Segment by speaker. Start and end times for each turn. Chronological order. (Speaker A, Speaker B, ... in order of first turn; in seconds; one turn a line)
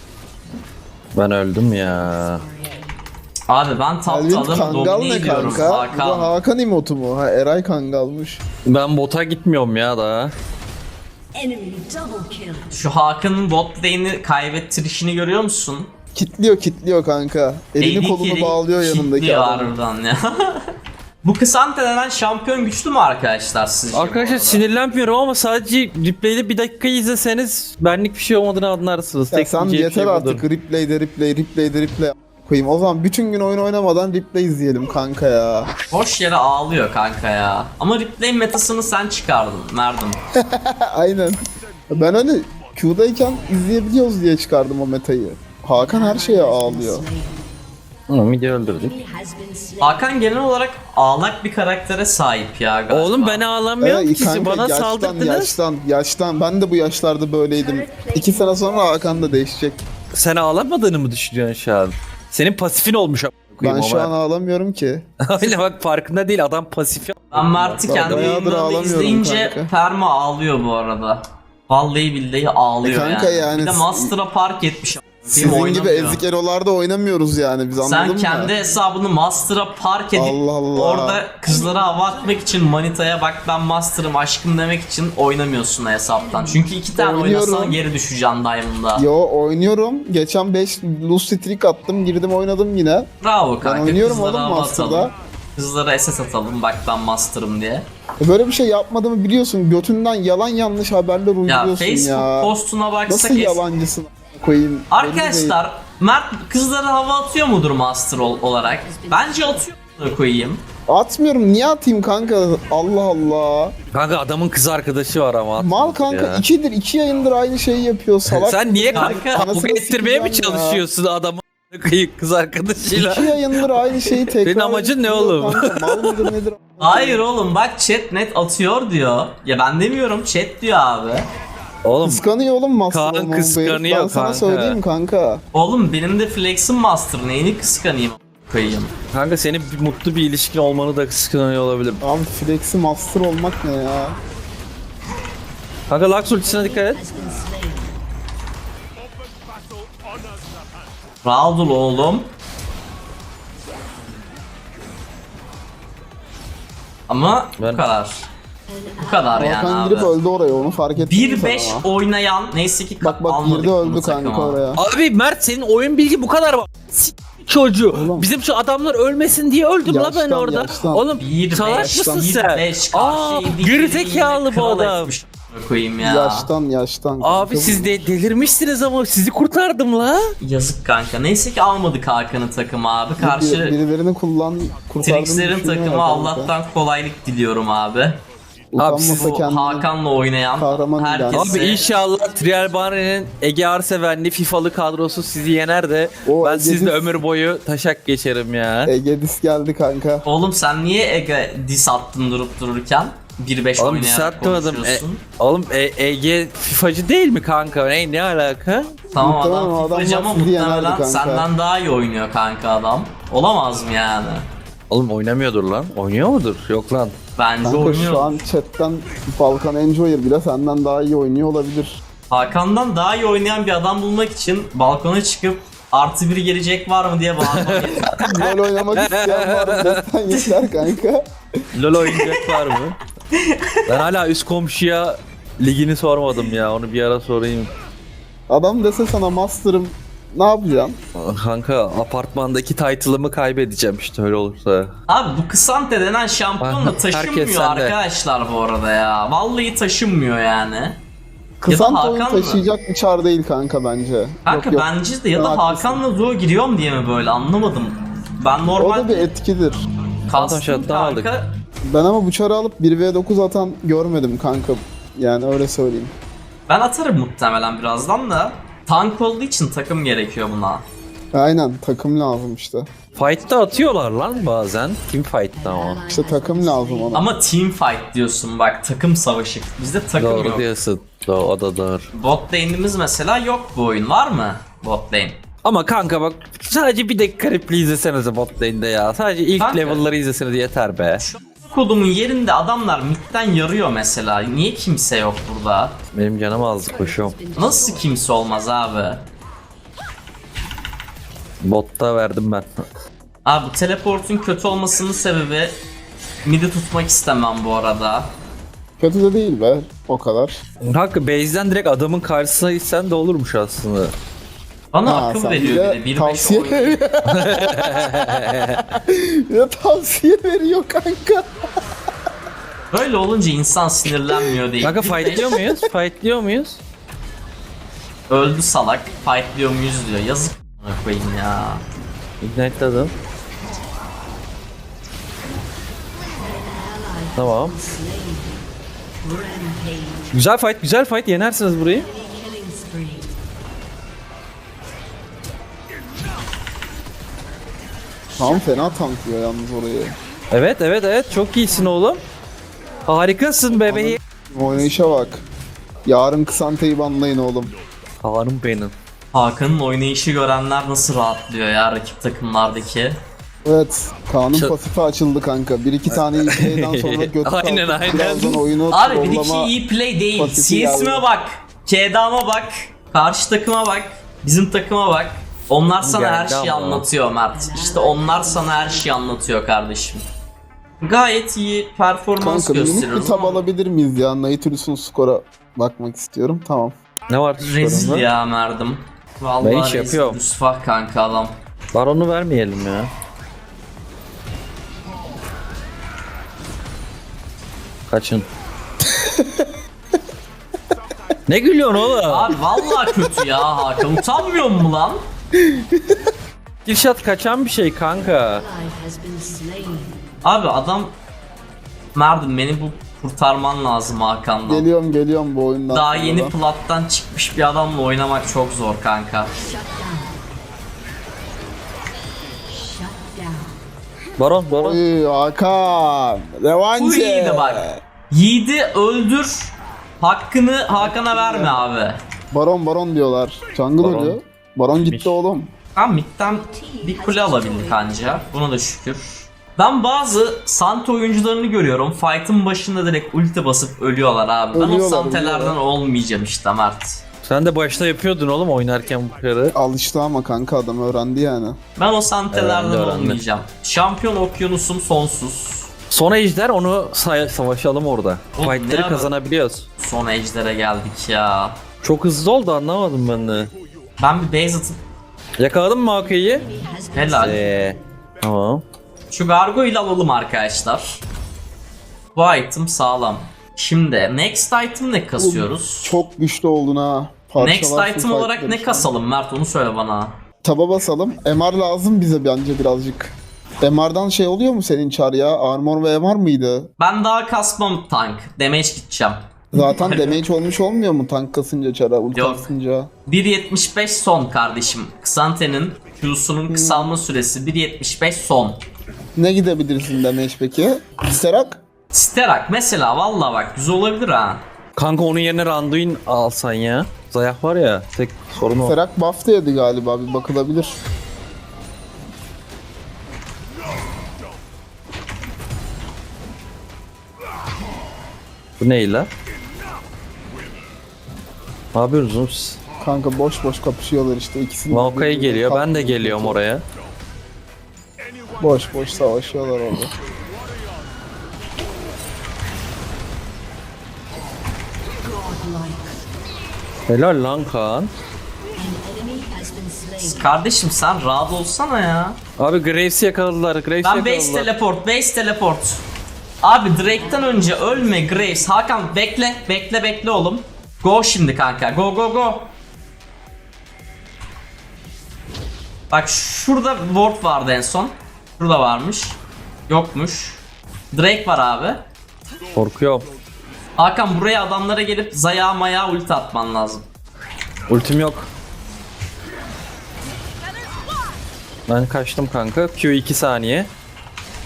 Speaker A: 1.1-2.4
Speaker B: 1.7-2.9
Speaker C: 3.5-6.3
Speaker D: 4.1-8.4
Speaker A: 8.7-10.3
Speaker B: 11.3-12.8
Speaker C: 12.7-15.9
Speaker D: 16.1-19.7
Speaker C: 17.8-20.7
Speaker C: 21.2-24.6
Speaker A: 23.9-30.4
Speaker D: 29.3-35.7
Speaker C: 35.9-40.2
Speaker D: 40.4-47.1
Speaker B: 45.8-47.5
Speaker A: 48.1-48.9
Speaker B: 48.7-50.2
Speaker C: 49.8-53.4
Speaker A: 52.9-55.6
Speaker D: 53.8-59.8
Speaker B: 57.5-59.2
Speaker A: 60.1-64.1
Speaker D: 63.6-65.1
Speaker A: 65.2-68.4
Speaker C: 67.3-76.2
Speaker D: 67.8-69.7
Speaker D: 72.8-74.1
Speaker D: 75.3-78.5
Speaker C: 77.8-89.1
Speaker D: 80.1-81.2
Speaker B: 81.5-82.8
Speaker B: 86.2-86.8
Speaker D: 86.9-87.8
Speaker D: 89.0-93.1
Speaker C: 93.2-97.9
Speaker D: 93.6-95.1
Speaker D: 98.2-102.5
Speaker C: 101.5-103.6
Speaker D: 103.1-105.6
Speaker C: 104.9-110.6
Speaker B: 108.6-109.7
Speaker D: 110.9-113.8
Speaker A: 113.9-116.4
Speaker D: 115.6-120.8
Speaker A: 118.3-123.4
Speaker C: 118.9-119.5
Speaker D: 122.9-127.2
Speaker A: 124.0-126.3
Speaker C: 126.8-131.3
Speaker A: 131.8-132.2
Speaker D: 132.0-135.4
Speaker A: 132.9-134.8
Speaker C: 135.5-138.9
Speaker A: 139.1-142.0
Speaker D: 142.0-144.2
Speaker A: 145.9-147.0
Speaker B: 146.3-147.9
Speaker C: 151.2-152.3
Speaker C: 157.1-158.3
Speaker A: 157.6-157.8
Speaker B: 158.7-159.7
Speaker C: 159.0-160.2
Speaker D: 159.4-161.9
Speaker C: 161.0-164.6
Speaker D: 163.0-164.8
Speaker A: 164.8-175.1
Speaker D: 167.9-168.3
Speaker D: 169.8-171.1
Speaker C: 171.2-176.5
Speaker D: 176.0-178.1
Speaker A: 177.2-180.3
Speaker C: 180.4-183.8
Speaker D: 183.2-186.6
Speaker C: 185.0-188.2
Speaker D: 188.7-189.9
Speaker A: 188.8-189.3
Speaker C: 189.1-191.8
Speaker D: 190.6-191.6
Speaker A: 191.3-198.9
Speaker D: 196.2-197.2
Speaker D: 198.9-200.2
Speaker C: 200.2-205.2
Speaker A: 203.8-209.0
Speaker C: 209.1-214.5
Speaker D: 209.2-211.5
Speaker A: 214.9-217.2
Speaker C: 217.4-218.4
Speaker D: 217.6-222.0
Speaker C: 222.3-228.2
Speaker A: 227.4-230.0
Speaker D: 228.1-231.6
Speaker A: 231.7-233.0
Speaker C: 232.0-232.5
Speaker C: 233.3-233.9
Speaker A: 233.9-237.7
Speaker D: 238.5-241.0
Speaker A: 241.2-244.9
Speaker C: 245.1-251.0
Speaker A: 246.6-247.9
Speaker D: 251.6-256.0
Speaker C: 251.7-252.6
Speaker C: 254.5-259.3
Speaker D: 258.8-259.8
Speaker C: 260.3-261.5
Speaker A: 260.3-261.3
Speaker D: 261.8-266.1
Speaker C: 266.7-270.9
Speaker D: 271.3-272.9
Speaker A: 273.2-276.0
Speaker B: 275.5-277.2
Speaker D: 276.1-277.3
Speaker C: 277.1-280.7
Speaker A: 280.2-282.1
Speaker C: 282.1-285.4
Speaker A: 285.6-291.2
Speaker C: 289.6-290.0
Speaker C: 291.2-296.0
Speaker A: 296.1-297.4
Speaker B: 296.5-298.1
Speaker C: 297.6-299.2
Speaker A: 301.6-302.9
Speaker C: 303.4-305.8
Speaker C: 306.4-308.3
Speaker D: 309.0-310.6
Speaker A: 310.8-314.1
Speaker C: 314.9-317.0
Speaker D: 315.1-321.5
Speaker A: 317.2-318.9
Speaker C: 322.9-325.5
Speaker A: 324.8-326.8
Speaker D: 325.4-325.9
Speaker C: 328.3-331.8
Speaker A: 332.4-333.1
Speaker B: 336.3-338.7
Speaker A: 337.4-337.8
Speaker B: 339.2-340.4
Speaker A: 340.3-342.1
Speaker B: 341.9-343.4
Speaker B: 348.4-349.1
Speaker D: 348.4-350.2
Speaker A: 350.5-352.2
Speaker B: 351.3-352.2
Speaker A: 353.1-354.2
Speaker D: 353.9-355.4
Speaker D: 356.1-357.7
Speaker A: 358.2-358.9
Speaker C: 359.3-363.2
Speaker D: 363.6-369.7
Speaker A: 366.1-368.6
Speaker C: 368.9-380.2
Speaker D: 370.3-371.2
Speaker A: 376.0-377.1
Speaker B: 377.5-379.4
Speaker C: 381.0-383.7
Speaker D: 382.4-387.0
Speaker A: 387.3-388.3
Speaker C: 387.6-391.6
Speaker A: 389.6-390.4
Speaker A: 391.9-393.1
Speaker A: 398.1-398.5
Speaker D: 399.1-399.7
Speaker A: 401.5-402.6
Speaker C: 402.3-405.2
Speaker D: 405.6-406.3
Speaker A: 406.9-408.6
Speaker B: 408.2-410.3
Speaker C: 410.4-411.1
Speaker C: 412.1-414.9
Speaker D: 414.7-416.5
Speaker C: 415.9-419.5
Speaker B: 419.6-420.6
Speaker B: 422.7-423.8
Speaker A: 424.4-425.0
Speaker D: 424.7-428.0
Speaker C: 427.0-432.2
Speaker D: 430.9-431.8
Speaker D: 432.5-435.7
Speaker A: 434.0-434.4
Speaker A: 434.9-435.4
Speaker C: 436.0-447.2
Speaker B: 436.4-438.5
Speaker D: 444.7-445.8
Speaker A: 447.4-449.8
Speaker D: 449.7-451.8
Speaker C: 452.0-455.9
Speaker A: 452.5-453.4
Speaker A: 456.1-459.9
Speaker C: 458.6-459.3
Speaker C: 460.0-461.8
Speaker A: 462.0-463.7
Speaker C: 464.2-465.0
Speaker A: 465.6-466.6
Speaker B: 466.2-468.0
Speaker C: 467.1-467.6
Speaker A: 467.3-468.8
Speaker C: 469.3-471.2
Speaker C: 472.4-476.2
Speaker D: 475.4-479.1
Speaker C: 477.6-480.4
Speaker D: 480.6-486.9
Speaker C: 487.0-490.4
Speaker D: 489.7-493.1
Speaker C: 492.3-492.7
Speaker C: 493.3-498.8
Speaker D: 496.7-497.1
Speaker D: 499.4-501.8
Speaker C: 502.1-504.6
Speaker A: 505.0-509.0
Speaker D: 508.8-511.0
Speaker A: 518.8-519.3
Speaker A: 521.9-522.8
Speaker D: 523.0-526.6
Speaker A: 524.9-526.8
Speaker D: 528.6-530.2
Speaker B: 535.1-536.2
Speaker A: 537.1-538.1
Speaker B: 538.8-540.5
Speaker C: 540.2-542.4
Speaker A: 542.6-544.7
Speaker C: 544.0-546.0
Speaker C: 546.6-552.7
Speaker B: 547.0-548.8
Speaker C: 556.1-559.4
Speaker C: 559.9-562.0
Speaker A: 562.7-563.3
Speaker C: 564.0-567.1
Speaker A: 567.9-568.5
Speaker A: 571.9-573.9